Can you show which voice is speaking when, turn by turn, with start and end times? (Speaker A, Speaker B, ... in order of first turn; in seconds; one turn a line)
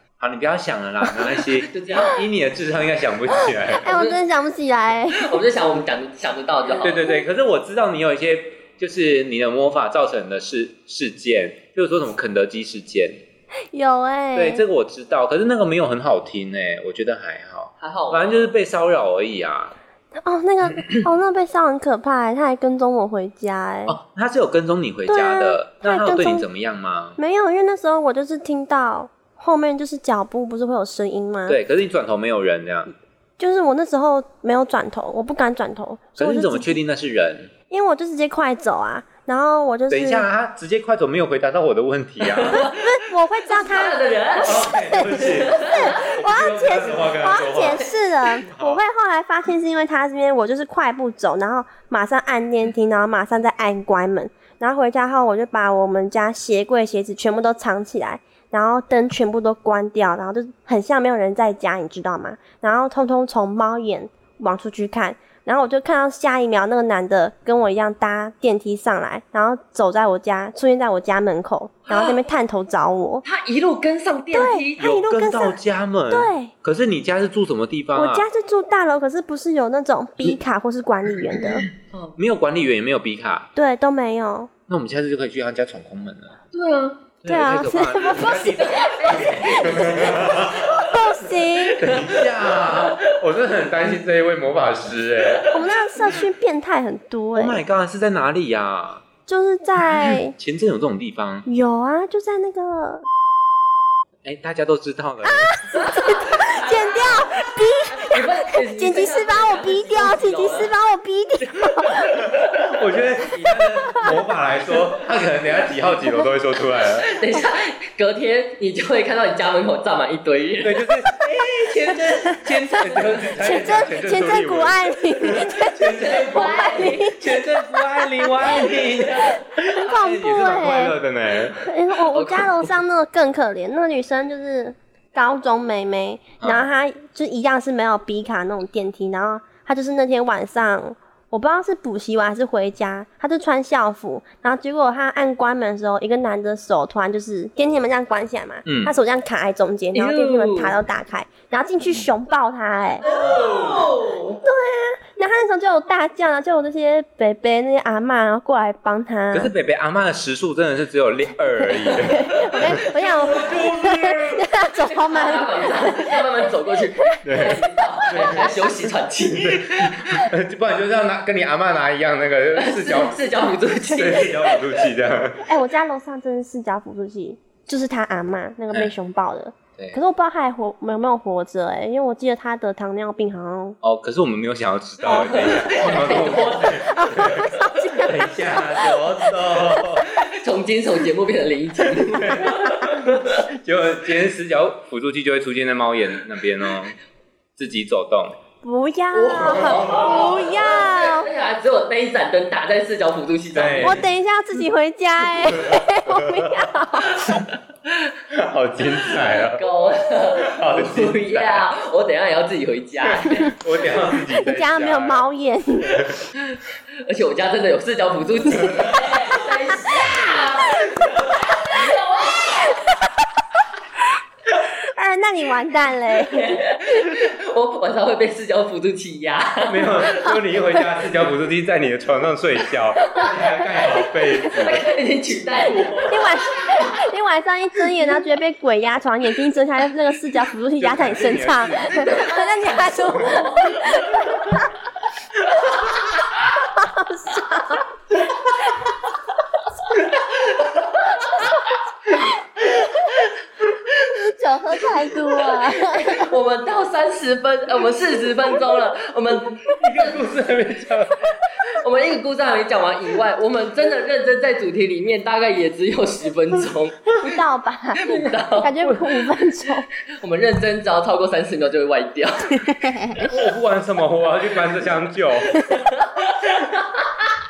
Speaker A: 0.2-3.9
Speaker B: 1.6-2.2
Speaker C: 3.8-5.4
Speaker B: 3.9-4.2
Speaker B: 5.2-7.1
Speaker A: 6.8-13.2
Speaker C: 13.7-14.6
Speaker A: 14.3-19.8
Speaker B: 17.8-18.4
Speaker C: 20.2-24.0
Speaker A: 23.9-27.2
Speaker C: 25.1-26.5
Speaker C: 27.2-31.6
Speaker A: 31.5-32.9
Speaker C: 33.4-36.8
Speaker A: 36.2-37.5
Speaker C: 37.7-40.3
Speaker A: 39.9-42.6
Speaker B: 42.2-46.1
Speaker C: 42.8-73.2
Speaker A: 44.4-48.8
Speaker B: 47.6-47.9
Speaker B: 71.9-72.2
Speaker B: 73.2-75.0
Speaker C: 74.3-75.6
Speaker A: 74.8-78.3
Speaker C: 76.1-76.5
Speaker C: 77.9-81.7
Speaker A: 82.2-83.5
Speaker C: 83.6-84.5
Speaker A: 84.7-86.4
Speaker B: 86.5-87.0
Speaker A: 87.2-90.8
Speaker C: 87.3-91.8
Speaker B: 88.5-93.2
Speaker A: 91.8-95.5
Speaker C: 95.5-97.6
Speaker A: 97.3-99.0
Speaker C: 99.3-100.3
Speaker A: 100.0-101.5
Speaker C: 101.5-103.1
Speaker A: 104.2-105.7
Speaker C: 105.3-112.0
Speaker B: 105.7-110.7
Speaker B: 111.5-112.7
Speaker A: 112.5-117.1
Speaker B: 113.3-114.2
Speaker B: 117.1-120.8
Speaker A: 120.6-131.7
Speaker C: 123.4-128.8
Speaker B: 126.0-127.2
Speaker B: 128.7-129.4
Speaker C: 129.7-131.0
Speaker C: 131.6-153.1
Speaker B: 132.1-132.7
Speaker A: 136.4-136.7
Speaker A: 148.7-148.9
Speaker B: 149.9-150.8
Speaker B: 153.0-154.4
Speaker A: 153.1-153.9
Speaker C: 154.4-159.5
Speaker A: 159.3-164.5
Speaker C: 161.7-166.3
Speaker B: 164.8-170.3
Speaker A: 167.2-173.2
Speaker B: 172.6-174.8
Speaker A: 173.9-175.5
Speaker C: 175.5-183.8
Speaker A: 183.8-190.1
Speaker B: 185.0-187.7
Speaker C: 186.9-188.9
Speaker B: 190.0-193.4
Speaker A: 192.0-197.0
Speaker A: 197.6-198.4
Speaker C: 198.6-201.3
Speaker B: 199.1-204.0
Speaker A: 199.6-200.2
Speaker A: 203.5-204.0
Speaker C: 203.8-207.2
Speaker A: 205.5-206.7
Speaker B: 207.2-207.5
Speaker A: 208.3-209.6
Speaker B: 209.2-213.5
Speaker A: 210.4-211.7
Speaker A: 213.0-215.2
Speaker C: 214.2-216.0
Speaker A: 215.9-216.2
Speaker B: 216.5-222.8
Speaker C: 224.9-226.6
Speaker B: 226.3-230.3
Speaker A: 229.7-234.8
Speaker B: 234.5-236.9
Speaker C: 236.1-244.7
Speaker A: 240.8-242.3
Speaker B: 241.9-244.6
Speaker C: 246.8-247.8
Speaker B: 250.4-251.6
Speaker C: 254.1-256.3
Speaker B: 255.6-260.2
Speaker A: 259.7-261.4
Speaker B: 261.6-267.1
Speaker C: 267.2-269.9
Speaker B: 268.0-269.0
Speaker B: 270.2-273.2
Speaker A: 273.2-275.6
Speaker B: 275.6-277.3